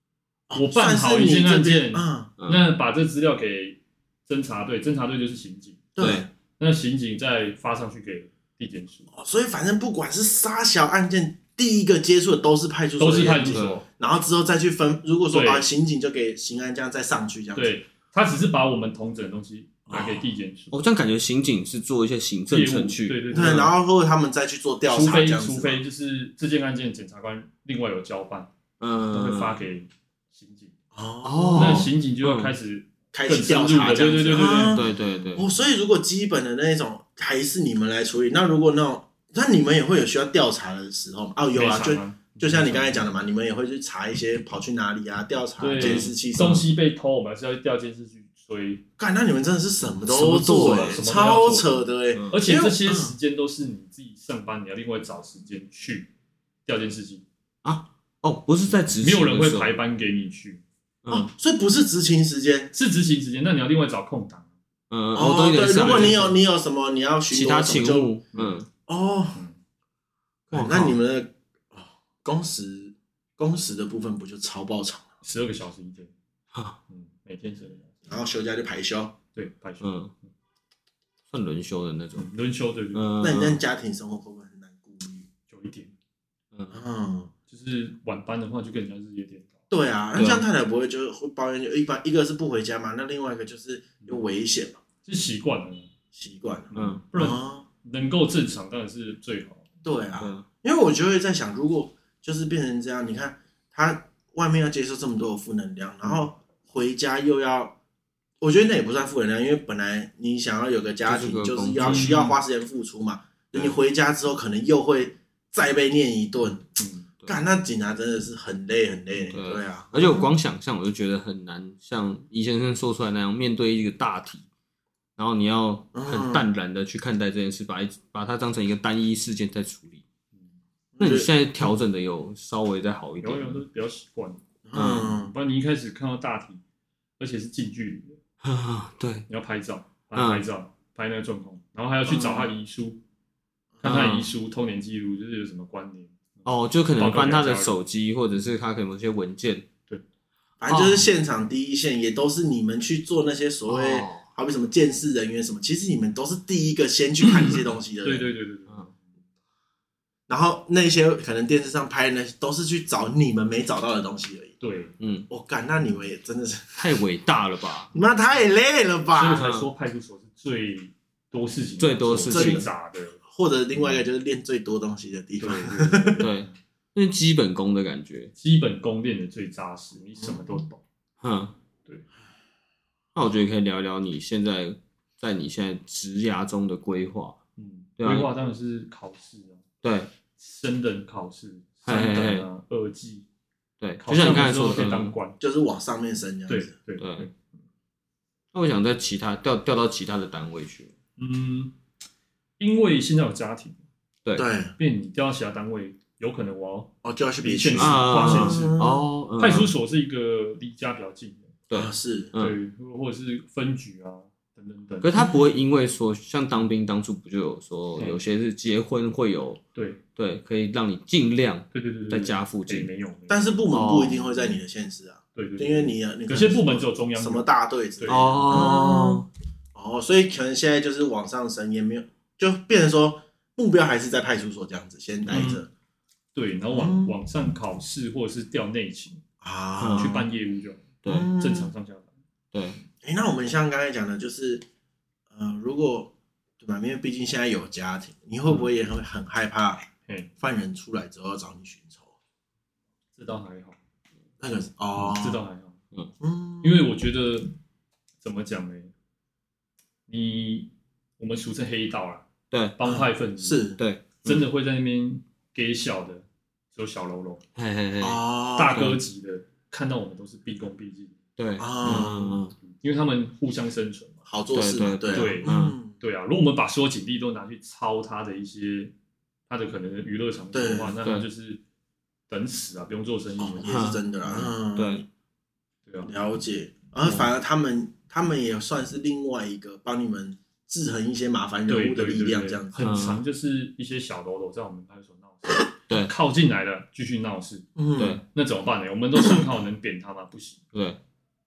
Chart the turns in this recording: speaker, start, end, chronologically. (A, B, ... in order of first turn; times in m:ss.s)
0:00.5-0:02.3 A
0:00.5-0:05.8 B
0:06.0-0:06.3 A
0:06.0-0:06.2 C
0:06.6-0:09.1 B
0:09.1-0:17.7 A
0:13.0-0:13.8 B
0:15.3-0:15.6 B
0:17.5-0:20.8 B
0:19.9-0:20.3 A
0:20.7-0:23.6 C
0:22.5-0:23.7 B
0:23.3-0:25.8 A
0:24.9-0:28.5 B
0:28.8-0:29.6 C
0:29.1-0:30.7 B
0:30.9-0:31.9 A
0:31.2-0:32.5 C
0:31.6-0:34.8 B
0:33.1-0:46.7 A
0:34.4-0:35.5 C
0:41.5-0:43.1 B
0:45.6-0:48.8 B
0:45.7-0:46.1 C
0:49.0-0:53.1 A
0:50.0-0:51.0 C
0:50.5-0:56.1 B
0:56.6-0:57.2 B
0:57.6-0:59.8 C
0:59.0-1:00.6 B
1:01.0-1:01.3 C
1:01.1-1:02.7 A
1:02.7-1:04.5 B
1:04.9-1:06.3 C
1:05.1-1:08.2 A
1:05.6-1:06.4 B
1:07.3-1:08.7 C
1:08.3-1:08.6 B
1:08.9-1:09.4 A
1:10.5-1:11.0 C
1:10.5-1:15.0 A
1:15.2-1:16.1 B
1:16.5-1:16.8 C
1:16.9-1:18.0 B
1:18.1-1:19.1 A
1:19.3-1:19.9 B
1:19.8-1:20.1 C
1:21.3-1:22.3 C
1:22.2-1:23.1 B
1:22.9-1:23.6 C
1:23.2-1:25.2 A
1:25.5-1:25.9 B
1:26.7-1:27.3 A
1:27.5-1:29.6 B
1:29.7-1:34.8 A
1:30.1-1:30.4 C
1:35.0-1:35.9 B
1:36.1-1:37.6 A
1:36.7-1:37.0 C
1:36.7-1:39.6 B
1:39.8-1:47.7 A
1:40.2-1:40.4 C
1:48.4-1:56.6 A
1:51.0-1:52.2 C
1:51.8-1:52.4 B
1:56.8-1:57.0 B
1:57.2-2:00.3 A
1:59.3-2:04.4 C
2:05.2-2:10.0 C
2:05.9-2:06.4 A
2:11.0-2:11.4 A
2:11.0-2:13.6 C
2:13.2-2:14.4 B
2:14.6-2:15.3 A
2:14.7-2:15.1 C
2:15.0-2:16.6 B
2:17.2-2:18.2 B
2:18.4-2:19.2 C
2:19.3-2:23.0 B
2:20.1-2:20.4 C
2:22.1-2:22.5 A
2:23.8-2:24.0 A
2:23.8-2:27.7 B
2:23.8-2:24.3 C
2:26.4-2:29.6 C
2:30.6-2:38.2 A
2:30.7-2:31.1 C
2:33.7-2:34.2 C
2:37.3-2:38.9 B
2:40.3-2:44.6 A
2:44.6-2:44.9 B
2:45.0-2:45.3 C
2:45.3-2:46.8 A
2:46.8-2:47.9 C
2:47.9-2:49.4 A
2:49.1-2:53.2 B
2:49.3-2:49.7 C
2:51.8-2:52.6 C
2:52.2-2:52.7 A
2:53.2-2:56.3 A
2:55.4-2:56.5 B
2:56.2-2:58.3 C
2:58.4-3:00.8 B
3:00.2-3:00.5 A
3:01.2-3:01.5 C
3:03.1-3:07.4 C
3:07.6-3:09.6 B
3:08.0-3:08.3 C
3:09.8-3:10.1 C
3:10.4-3:13.2 B
3:11.8-3:12.5 C
3:13.8-3:15.1 C
3:14.0-3:15.4 B
3:15.4-3:16.7 A
3:16.5-3:17.3 B
3:17.0-3:17.3 C
3:18.5-3:20.9 C
3:21.2-3:21.7 B
3:22.6-3:23.8 B
3:24.4-3:24.7 A
3:24.8-3:31.5 B
3:27.0-3:29.0 A
3:27.8-3:29.7 C
3:31.7-3:32.6 C
3:31.7-3:32.3 A
3:32.4-3:35.3 B
3:35.0-3:39.6 C
3:39.7-3:40.0 B
3:40.2-3:42.9 C
3:41.7-3:43.8 B
3:43.3-3:55.7 A
3:43.7-3:44.6 C
3:45.3-3:47.4 B
3:48.0-3:48.7 B
3:48.1-3:49.2 C
3:55.3-3:55.6 B
3:56.3-3:59.2 B
3:56.7-3:57.1 A
3:59.4-4:00.3 A
3:59.8-4:00.2 C
4:00.0-4:02.1 B
4:01.0-4:01.3 C
4:01.0-4:01.7 A
4:02.5-4:02.8 C
4:03.0-4:04.6 A
4:05.3-4:09.9 A
4:10.4-4:12.1 A
4:13.2-4:13.8 B
4:14.4-4:15.4 A
4:15.0-4:15.8 B
4:16.2-4:16.8 A
4:16.6-4:17.5 B
4:18.2-4:18.9 B
4:20.1-4:27.4 B
4:22.5-4:22.8 C
4:22.8-4:23.8 A
4:23.8-4:24.4 C
4:27.6-4:28.2 C
4:28.0-4:28.8 A
4:28.6-4:31.2 B
4:31.4-4:32.5 C
4:31.6-4:32.4 A
4:32.6-4:34.2 B
4:34.3-4:35.9 A
4:34.5-4:35.8 C
4:35.1-4:38.9 B
4:39.5-4:41.6 B
4:40.5-4:40.9 A
4:42.3-4:44.4 B
4:43.4-4:45.0 A
4:43.6-4:45.0 C
4:45.9-4:46.1 B
4:46.0-4:53.0 A
4:51.7-4:57.6 B
4:52.8-4:53.2 C
4:57.8-4:58.2 A
4:58.0-4:58.2 C
4:58.3-5:00.6 B
5:00.7-5:01.0 C